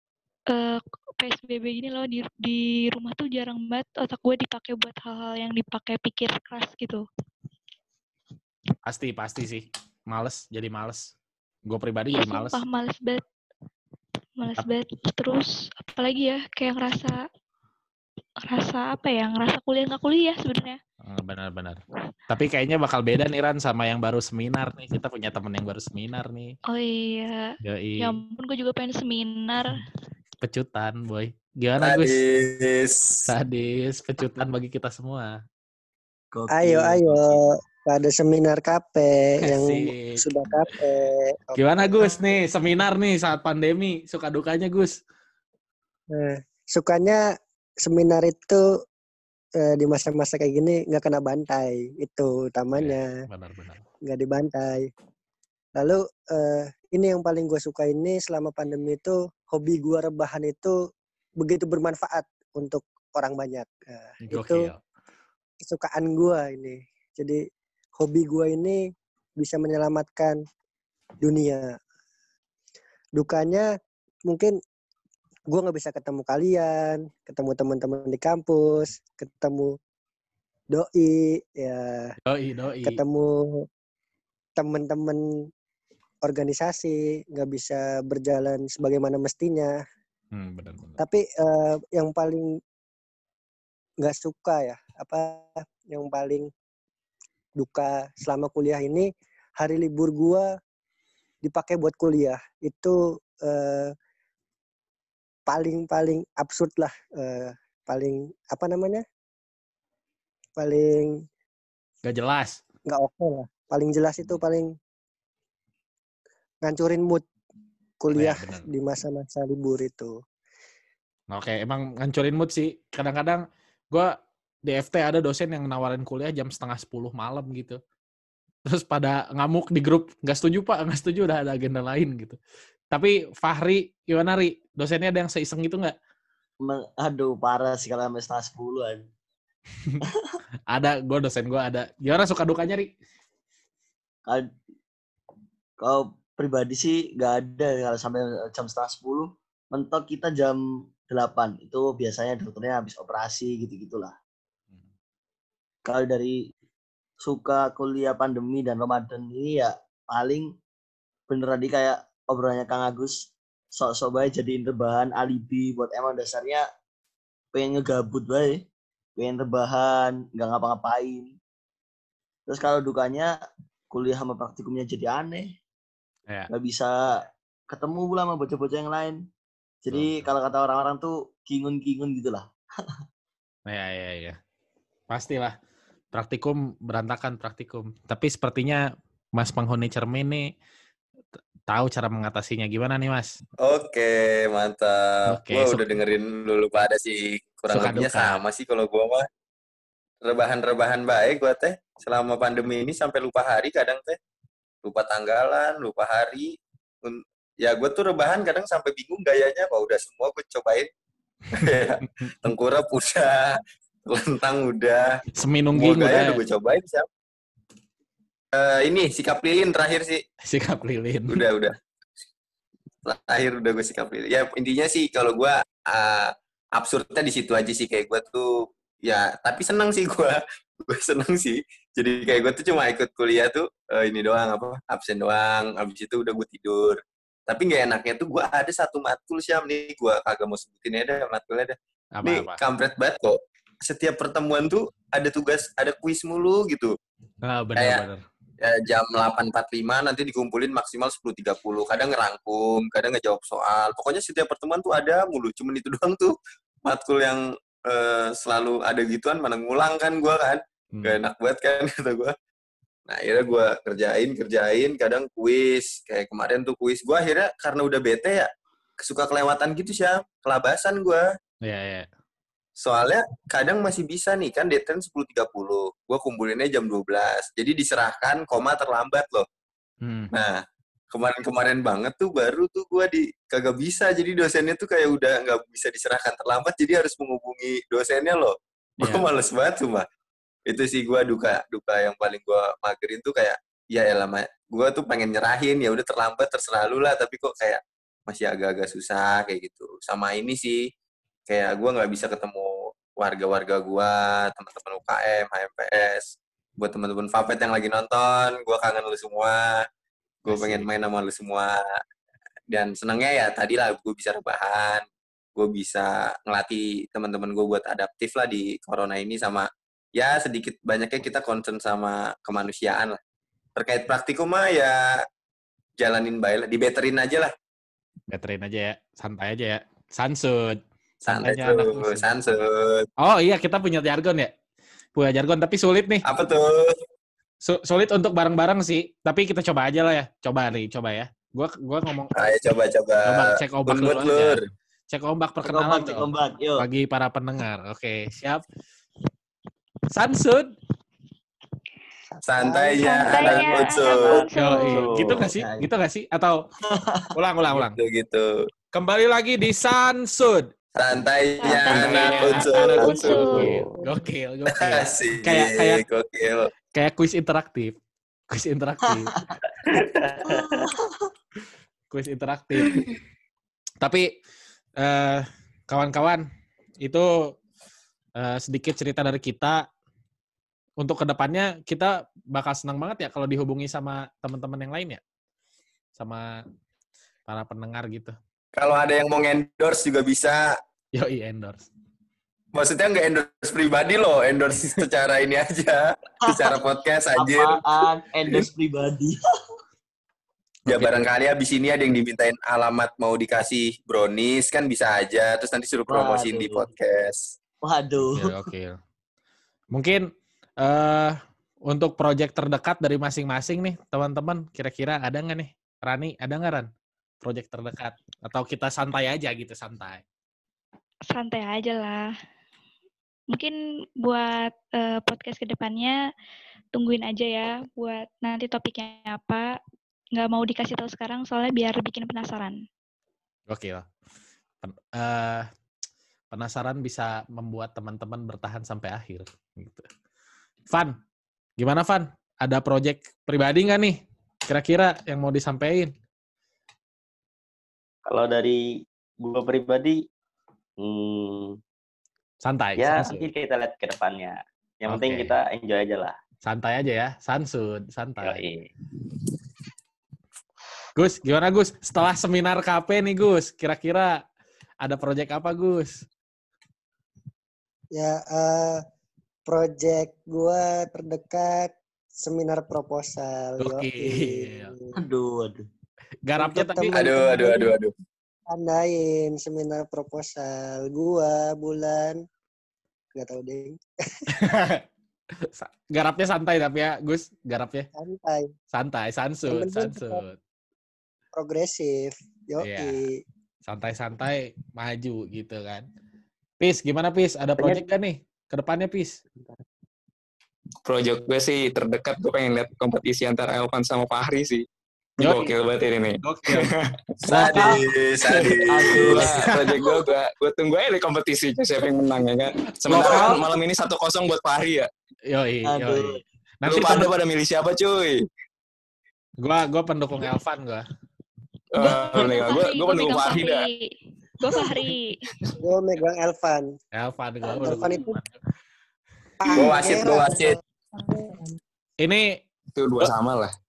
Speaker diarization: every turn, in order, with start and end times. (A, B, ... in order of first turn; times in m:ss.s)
0:00.5-0:07.0 A
0:08.8-0:11.1 B
0:11.7-0:12.6 B
0:12.1-0:13.2 A
0:14.4-0:17.2 A
0:18.4-0:20.8 A
0:21.0-0:26.5 B
0:26.7-0:29.8 A
0:27.6-0:28.2 B
0:30.4-0:32.2 B
0:31.8-0:33.3 C
0:33.3-0:35.4 B
0:36.3-0:37.4 D
0:36.5-0:42.2 E
0:39.4-0:40.2 B
0:41.6-0:45.0 B
0:46.1-0:47.2 E
0:47.8-0:48.6 E
0:49.6-0:53.1 E
0:52.7-0:53.8 B
0:54.0-0:54.9 E
0:55.8-1:00.8 E
1:01.4-1:04.7 E
1:04.2-1:04.8 B
1:05.6-1:07.4 E
1:08.0-1:08.8 E
1:09.4-1:10.4 E
1:11.2-1:11.7 E
1:13.2-1:13.7 E
1:14.3-1:14.6 E
1:15.5-1:19.8 E
1:20.7-1:22.1 E
1:22.2-1:23.0 B
1:22.8-1:23.6 E
1:24.6-1:25.2 E
1:26.2-1:29.7 E
1:30.3-1:31.0 B
1:31.0-1:32.5 E
1:34.0-1:36.5 E
1:37.6-1:40.5 E
1:41.4-1:43.9 E
1:45.5-1:49.0 E
1:50.6-1:51.2 E
1:52.0-1:52.6 B
1:52.9-1:54.7 E
1:56.6-1:57.2 E
1:58.0-2:00.2 E
1:58.1-1:58.7 B
2:01.3-2:04.1 B
2:04.7-2:07.8 B
2:08.6-2:12.4 B
2:12.9-2:15.9 B
2:16.6-2:19.1 D
2:20.0-2:20.4 D
2:20.7-2:22.9 B
2:25.8-2:34.1 D
2:35.8-2:36.4 D
2:37.2-2:40.5 D
2:41.3-2:46.6 D
2:47.5-2:48.6 D
2:49.2-2:51.3 D
2:52.5-2:53.3 D
2:53.9-2:55.5 D
2:56.5-2:59.2 D
2:59.8-3:02.5 D
2:59.9-3:00.3 B
3:03.7-3:04.4 B
3:05.1-3:05.5 B
3:06.1-3:10.5 B
3:11.7-3:13.3 B
3:13.6-3:19.2 C
3:15.3-3:15.9 B
3:17.7-3:18.4 B
3:20.2-3:24.2 C
3:24.8-3:30.9 C
3:31.5-3:35.2 C
3:35.4-3:36.4 B
3:35.7-3:37.0 C
3:38.5-3:40.2 C
3:40.4-3:41.4 B
3:41.3-3:41.8 C
3:43.0-4:07.0 C
4:02.1-4:02.6 B
4:07.4-4:08.2 B
4:07.8-4:08.0 C
4:08.6-4:22.3 C
4:20.9-4:21.2 B
4:23.1-4:31.2 C
4:31.6-4:32.1 B
4:32.8-4:39.4 C
4:40.0-4:40.3 B
4:40.3-4:50.0 C
4:49.0-4:49.3 B
4:50.7-5:00.9 C
5:01.5-5:09.8 C
5:10.4-5:11.8 C
5:10.5-5:10.9 B
5:12.7-5:15.0 C
5:15.6-5:23.2 C
5:23.8-5:25.2 C
5:26.0-5:27.5 C
5:28.3-5:32.3 B
5:31.3-5:33.1 C
5:33.2-5:34.5 B
5:35.2-5:36.2 B
5:36.2-5:37.0 C
5:37.6-5:42.5 B
5:42.3-5:44.6 C
5:43.2-5:44.6 B
5:45.1-5:48.6 B
5:45.6-5:46.8 D
5:50.1-5:50.7 B
5:52.4-5:54.4 C
5:52.9-5:55.2 A
5:54.1-5:55.5 F
5:54.5-5:56.6 B
5:55.5-5:55.8 D
5:56.9-5:57.3 D
5:57.3-5:58.0 B
5:57.7-5:58.5 C
5:58.9-6:00.7 B
6:00.9-6:03.8 C
6:01.6-6:03.7 A
6:01.9-6:06.0 B
6:04.7-6:06.7 C
6:06.9-6:07.9 B
6:08.5-6:09.3 B
6:09.0-6:09.5 D
6:09.8-6:10.9 F
6:10.4-6:11.3 D
6:12.1-6:13.0 B
6:14.0-6:14.3 B
6:15.0-6:16.5 B
6:17.0-6:17.5 B
6:18.4-6:19.8 B
6:21.0-6:25.2 B
6:26.2-6:26.6 B
6:27.5-6:28.4 B
6:28.8-6:30.8 C
6:31.1-6:31.9 B
6:32.7-6:37.8 C
6:36.5-6:36.8 D
6:37.4-6:39.4 D
6:40.8-6:41.3 B
6:40.9-6:47.5 C
6:46.1-6:46.9 D
6:47.8-6:48.7 D
6:48.3-6:49.0 B
6:49.9-6:50.3 B
6:50.8-6:51.4 B
6:51.9-6:56.9 B
6:57.4-7:00.2 B
7:01.3-7:02.3 A
7:03.5-7:06.2 A
7:06.9-7:09.8 A
7:10.3-7:12.8 A
7:13.7-7:14.0 B
7:14.8-7:15.7 B
7:16.5-7:20.1 B
7:20.9-7:21.2 B
7:21.8-7:26.1 B
7:28.2-7:30.2 F
7:31.0-7:31.8 F
7:32.6-7:33.5 B
7:33.0-7:36.4 F
7:35.1-7:35.6 B
7:36.6-7:38.6 B
7:38.4-7:38.9 F
7:41.2-7:44.4 B
7:45.0-7:46.3 B
7:48.1-7:49.0 E
7:49.6-7:55.1 E
7:53.8-7:54.9 B
7:55.1-7:55.8 D
7:56.4-7:57.2 B
7:56.6-7:58.0 E
7:57.1-7:58.1 C
7:58.7-8:02.4 E
8:03.3-8:04.5 E
8:04.5-8:05.0 B
8:05.6-8:08.1 B
8:08.2-8:08.7 E
8:08.9-8:10.6 B
8:09.7-8:10.4 E
8:11.5-8:13.4 E
8:12.8-8:13.2 B
8:13.9-8:16.0 B
8:16.8-8:19.4 B
8:21.0-8:24.8 G
8:25.4-8:25.7 B
8:25.4-8:27.1 G
8:26.4-8:26.9 B
8:27.4-8:30.2 C
8:27.5-8:28.0 B
8:28.6-8:29.6 D
8:29.1-8:35.1 G
8:33.1-8:33.6 B
8:33.1-8:33.4 C
8:35.5-8:37.3 B
8:35.8-8:36.4 D
8:36.8-8:38.4 G
8:39.6-8:41.0 B
8:41.9-8:43.8 G
8:42.0-8:45.5 A
8:45.8-8:47.0 E
8:47.1-8:48.5 B
8:47.7-8:48.3 E
8:49.6-8:51.5 E
8:49.7-8:50.8 C
8:52.2-8:52.6 B
8:53.0-8:53.7 G